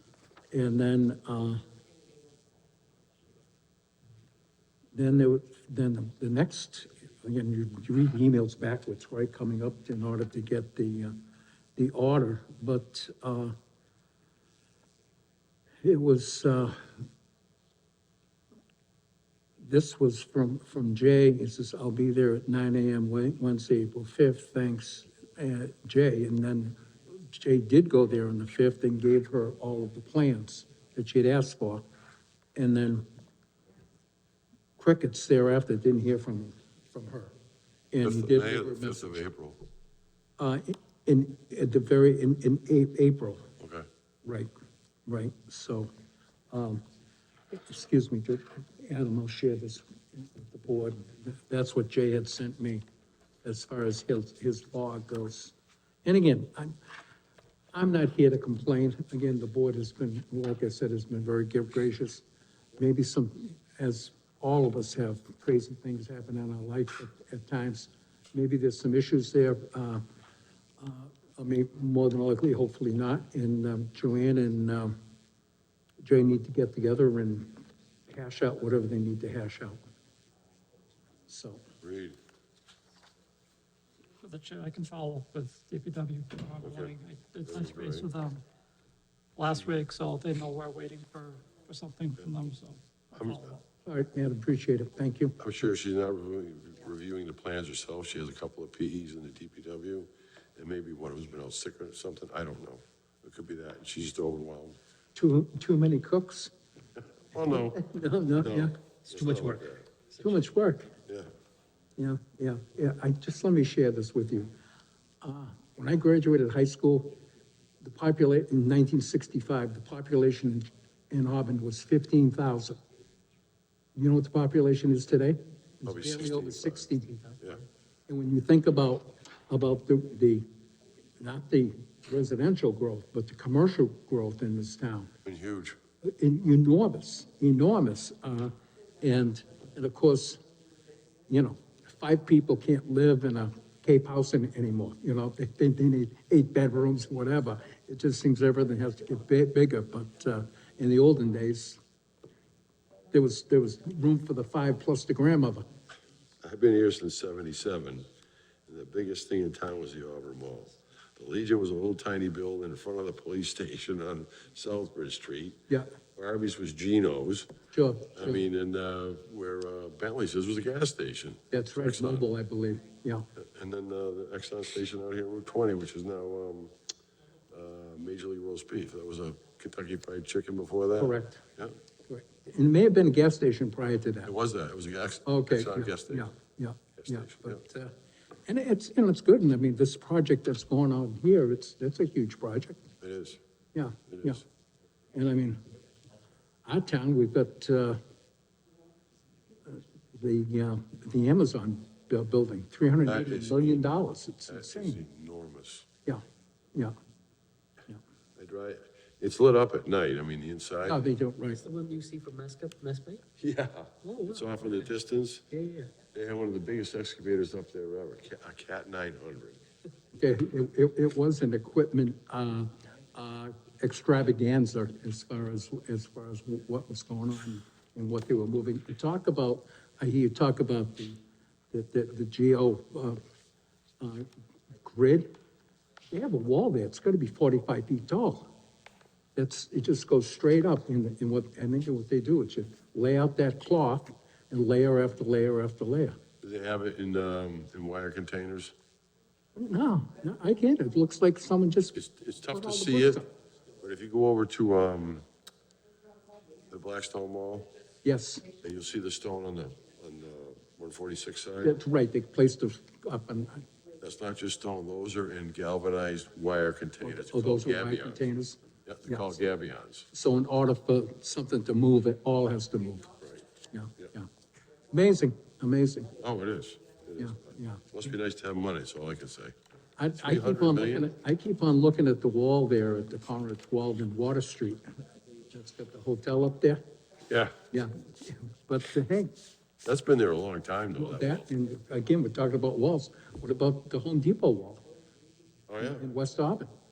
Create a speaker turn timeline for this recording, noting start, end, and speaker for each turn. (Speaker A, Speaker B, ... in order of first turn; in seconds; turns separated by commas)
Speaker A: 0.5-1.6, Speaker A: 4.9-11.2, Speaker A: 11.8-13.5, Speaker A: 15.8-16.8, Speaker A: 19.6-31.8, Speaker A: 32.5-33.0, Speaker A: 34.8-37.3, Speaker A: 37.9-39.2, Speaker B: 38.0-39.6, Speaker A: 40.4-43.5, Speaker B: 43.6-43.9, Speaker A: 44.2-44.5, Speaker A: 45.0-45.9, Speaker A: 46.5-46.8, Speaker A: 47.5-52.8, Speaker A: 53.4-55.5, Speaker A: 56.0-56.8, Speaker A: 57.7-62.2, Speaker A: 62.8-70.0, Speaker A: 70.8-75.0, Speaker A: 76.0-79.8, Speaker A: 81.3-81.6, Speaker B: 81.8-82.2, Speaker C: 84.2-88.4, Speaker B: 86.6-86.9, Speaker B: 87.4-88.1, Speaker C: 89.4-93.6, Speaker B: 93.1-93.5, Speaker A: 93.8-95.4, Speaker B: 95.4-104.8, Speaker A: 105.1-106.5, Speaker B: 107.3-109.8, Speaker A: 107.4-110.9, Speaker A: 112.0-114.5, Speaker A: 115.2-117.2, Speaker A: 117.8-122.8, Speaker A: 124.0-127.4, Speaker B: 125.8-127.6, Speaker A: 128.1-130.4, Speaker A: 131.2-135.1, Speaker B: 135.2-135.8, Speaker A: 136.0-140.4, Speaker A: 141.3-151.8, Speaker A: 153.1-155.7, Speaker B: 156.4-158.1, Speaker B: 158.7-165.6, Speaker B: 166.2-167.5, Speaker A: 167.7-168.4, Speaker B: 168.1-172.2, Speaker A: 171.5-173.3, Speaker B: 173.3-176.7, Speaker B: 177.5-181.8, Speaker A: 181.0-181.4, Speaker A: 182.1-184.3, Speaker B: 184.2-186.3, Speaker A: 185.2-187.9, Speaker B: 187.0-187.6, Speaker A: 188.5-192.8, Speaker B: 193.0-193.4, Speaker A: 193.7-194.4, Speaker B: 194.1-194.4, Speaker A: 195.1-195.6, Speaker A: 196.6-198.0, Speaker A: 199.7-205.0, Speaker B: 203.0-205.9, Speaker B: 208.4-211.0, Speaker A: 210.8-211.7, Speaker D: 211.6-213.2, Speaker B: 213.4-215.5, Speaker D: 214.0-214.8, Speaker D: 215.5-215.9, Speaker B: 216.1-219.6, Speaker A: 220.1-231.2, Speaker A: 231.7-233.2, Speaker A: 234.0-234.3, Speaker A: 234.8-235.3, Speaker A: 236.1-238.5, Speaker A: 239.3-246.2, Speaker B: 246.4-248.7, Speaker A: 249.6-253.3, Speaker B: 251.9-253.2, Speaker B: 253.8-255.2, Speaker B: 256.7-257.7, Speaker A: 258.0-258.4, Speaker B: 258.6-261.8, Speaker A: 261.6-263.6, Speaker B: 264.0-268.2, Speaker A: 267.0-269.4, Speaker B: 268.8-270.1, Speaker A: 270.1-273.1, Speaker A: 273.7-274.3, Speaker A: 274.9-276.1, Speaker B: 276.2-279.5, Speaker A: 277.2-277.9, Speaker A: 280.0-284.9, Speaker B: 280.2-281.1, Speaker A: 285.5-286.8, Speaker B: 287.3-287.5, Speaker A: 287.7-289.3, Speaker B: 289.8-291.4, Speaker A: 290.9-294.8, Speaker B: 295.7-296.1, Speaker A: 295.8-296.7